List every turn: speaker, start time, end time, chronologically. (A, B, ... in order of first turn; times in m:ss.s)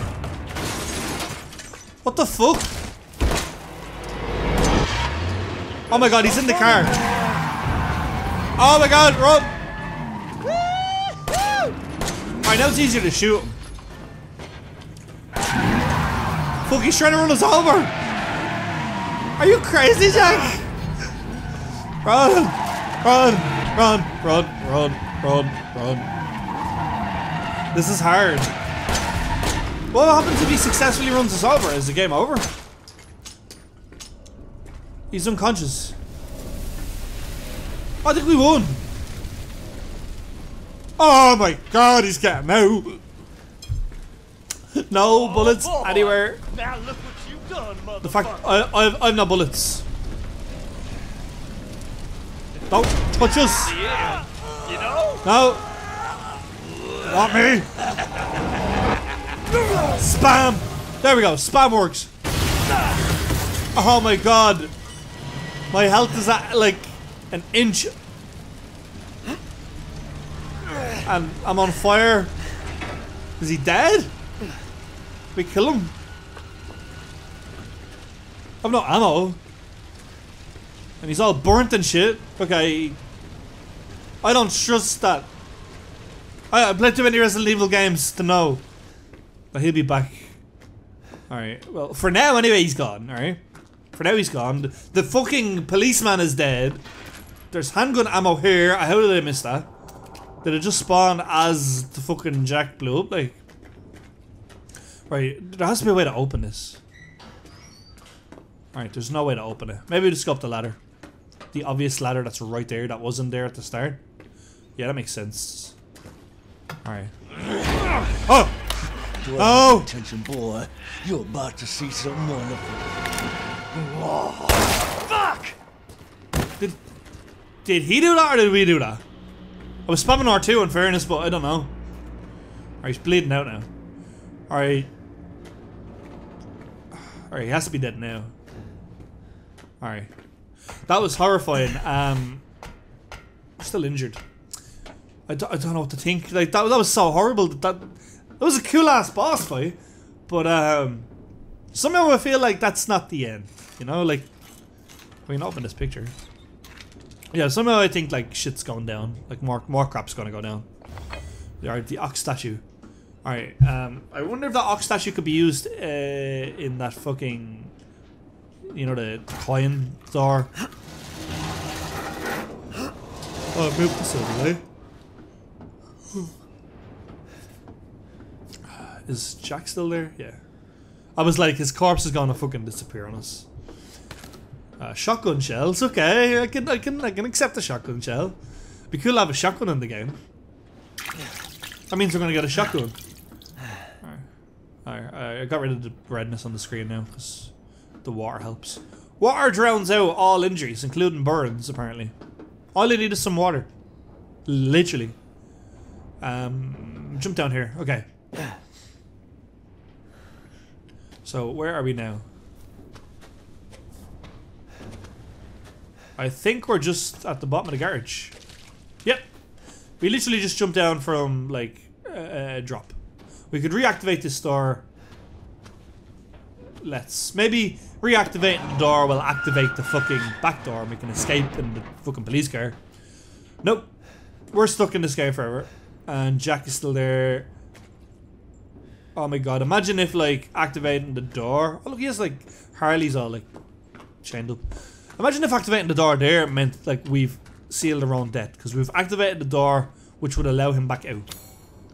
0:02.0-0:02.8 A
0:05.9-0:07.0 A
0:05.9-0:07.4 B
0:08.6-0:09.6 A
0:10.4-0:11.6 B
0:12.4-0:13.6 A
0:16.6-0:17.9 A
0:19.4-0:20.7 A
0:22.0-0:26.1 A
0:27.7-0:28.5 A
0:29.9-0:32.5 A
0:35.1-0:35.9 A
0:38.0-0:38.8 A
0:41.0-0:43.0 A
0:44.7-0:46.4 A
0:44.9-0:48.7 B
0:48.0-0:49.9 A
0:52.7-0:53.9 A
0:53.6-0:55.3 B
0:55.2-0:55.7 A
0:56.9-0:57.8 A
0:59.8-1:02.1 A
1:03.7-1:04.7 A
1:05.7-1:07.9 A
1:11.0-1:12.4 A
1:13.4-1:14.1 A
1:15.3-1:15.9 A
1:18.6-1:19.4 A
1:21.0-1:23.0 A
1:24.2-1:25.3 A
1:26.5-1:28.6 A
1:29.5-1:30.4 A
1:31.3-1:33.4 A
1:33.9-1:36.8 A
1:37.5-1:39.7 A
1:40.4-1:43.4 A
1:45.1-1:46.8 A
1:48.7-1:50.8 A
1:51.5-1:54.0 A
1:54.8-1:55.8 A
1:56.8-1:57.1 A
1:58.2-1:58.6 A
1:59.2-2:03.0 B
1:59.4-1:59.9 A
2:03.7-2:05.6 B
2:07.6-2:09.0 A
2:09.9-2:11.7 A
2:12.8-2:13.7 A
2:14.5-2:14.9 A
2:16.9-2:18.3 A
2:19.8-2:20.1 A
2:20.9-2:22.4 A
2:23.6-2:24.2 A
2:25.3-2:31.1 A
2:31.7-2:34.3 A
2:35.3-2:36.1 A
2:37.3-2:40.6 A
2:41.6-2:42.6 A
2:43.2-2:47.7 A
2:48.7-2:50.5 A
2:53.5-2:54.6 A
2:58.6-3:00.4 A
3:01.2-3:03.4 A
3:04.8-3:08.4 A
3:08.9-3:10.2 A
3:11.9-3:13.0 A
3:14.0-3:14.2 A
3:14.9-3:17.5 A
3:18.0-3:22.1 A
3:22.7-3:23.7 A
3:24.4-3:25.2 A
3:26.2-3:28.1 A
3:31.2-3:32.2 A
3:36.2-3:38.4 A
3:39.0-3:39.3 A
3:40.0-3:43.0 A
3:43.5-3:44.9 A
3:46.8-3:52.8 A
3:53.6-3:53.9 A
3:54.5-3:57.5 A
3:59.2-4:03.5 A
4:04.2-4:04.6 A
4:05.2-4:11.3 A